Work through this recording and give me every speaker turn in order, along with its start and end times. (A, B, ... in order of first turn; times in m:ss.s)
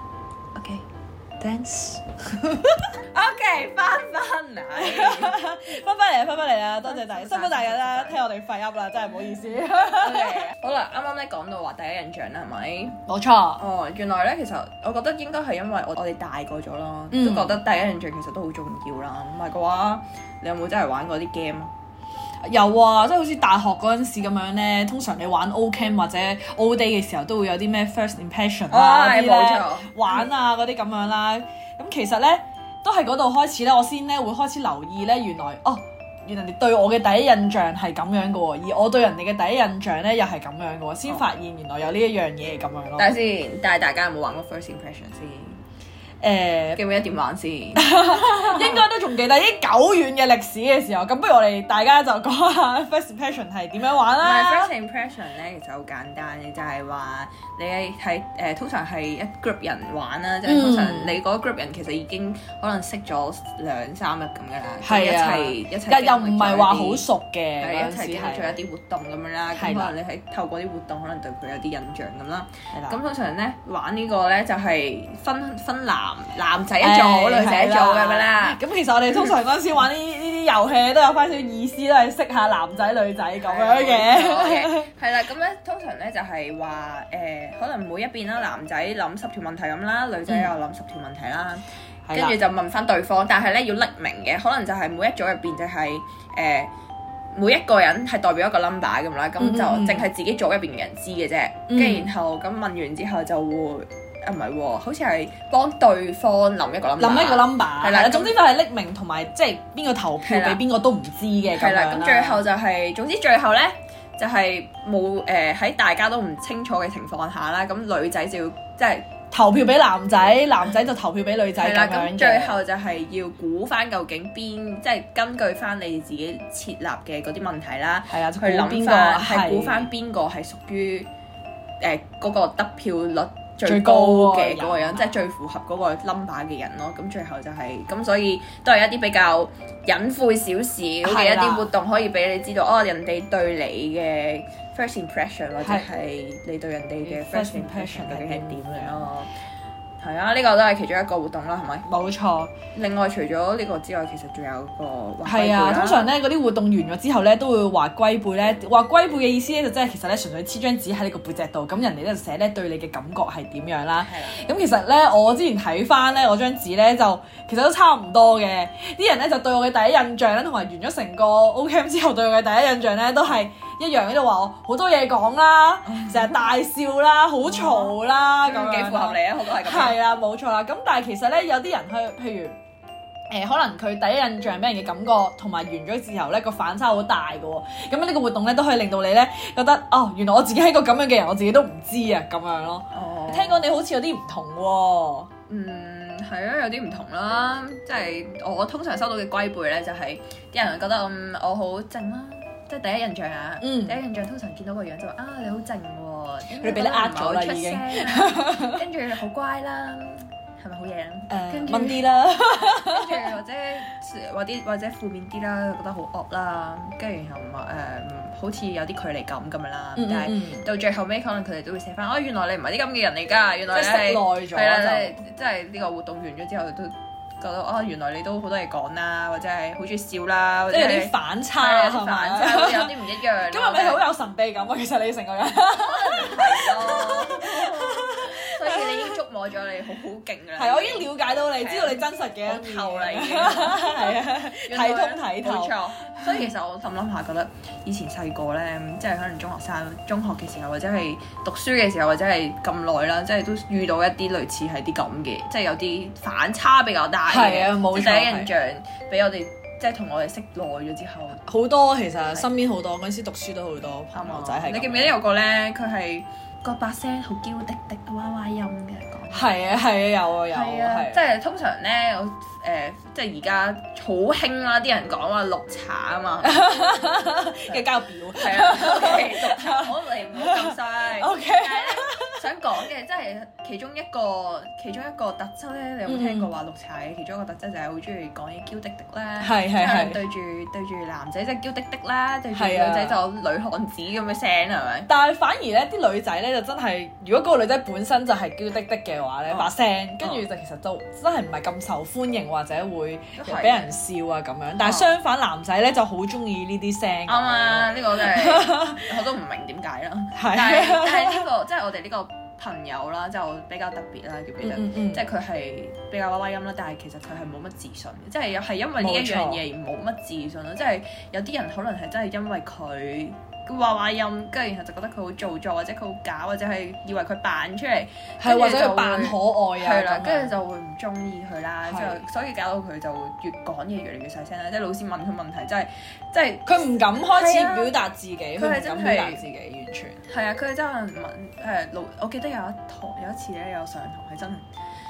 0:00.6-0:00.8 A
0:01.4-0:02.9 B
0:03.1-0:05.4 A
0:04.8-0:10.5 B
0:06.8-0:08.2 A
0:09.9-0:13.0 A
0:13.1-0:13.6 B
0:13.6-0:21.7 A
0:17.1-0:17.6 B
0:22.4-0:43.1 B
0:28.7-0:30.2 A
0:43.0-0:45.6 A
0:46.2-0:46.8 B
0:46.8-0:48.8 A
0:47.8-0:54.7 B
0:54.2-1:07.0 A
1:00.4-1:01.2 B
1:04.8-1:08.6 B
1:07.6-1:18.6 A
1:09.6-1:10.0 B
1:12.7-1:13.0 B
1:16.8-1:24.9 B
1:23.4-1:36.7 A
1:32.1-1:32.4 B
1:37.3-1:48.4 A
1:39.4-1:40.1 B
1:41.7-1:42.1 B
1:47.0-1:52.4 B
1:50.2-1:50.6 A
1:51.5-1:59.1 A
1:59.3-2:02.6 B
2:01.6-2:11.1 A
2:08.1-2:09.9 B
2:11.8-2:29.3 A
2:13.6-2:15.2 B
2:21.0-2:21.7 B
2:25.6-2:25.9 B
2:27.0-2:29.0 B
2:30.0-2:31.9 A
2:31.9-2:32.5 B
2:32.7-2:36.1 A
2:35.3-3:02.6 B
2:44.0-2:44.4 A
2:55.9-2:56.4 A
2:57.4-3:00.0 A
3:03.3-3:15.3 B
3:12.9-3:13.7 A
3:15.5-3:32.1 A
3:23.6-3:24.0 B
3:26.6-3:28.8 B
3:31.3-3:33.3 B
3:32.6-3:54.0 A
3:40.0-3:40.7 B
3:43.7-3:45.2 B
3:50.7-3:53.0 B
3:53.5-3:59.2 B
3:55.8-4:21.4 A
4:00.6-4:06.5 B
4:17.3-4:18.5 B
4:21.4-4:25.2 B
4:24.1-4:29.7 A
4:29.3-4:31.2 B
4:30.5-4:36.7 A
4:36.4-4:42.4 B
4:37.7-4:55.1 A
4:46.1-4:46.5 B
4:49.4-4:50.2 B
4:52.5-4:53.2 B
4:55.1-5:09.1 B
4:59.5-5:00.4 A
5:03.4-5:04.0 A
5:04.8-5:05.1 A
5:07.3-5:37.9 A
5:10.4-5:11.4 B
5:14.6-5:15.2 B
5:19.0-5:19.6 B
5:28.4-5:30.6 B
5:31.9-5:32.2 B
5:36.6-5:40.2 B
5:38.6-5:39.4 A
5:40.3-5:44.7 A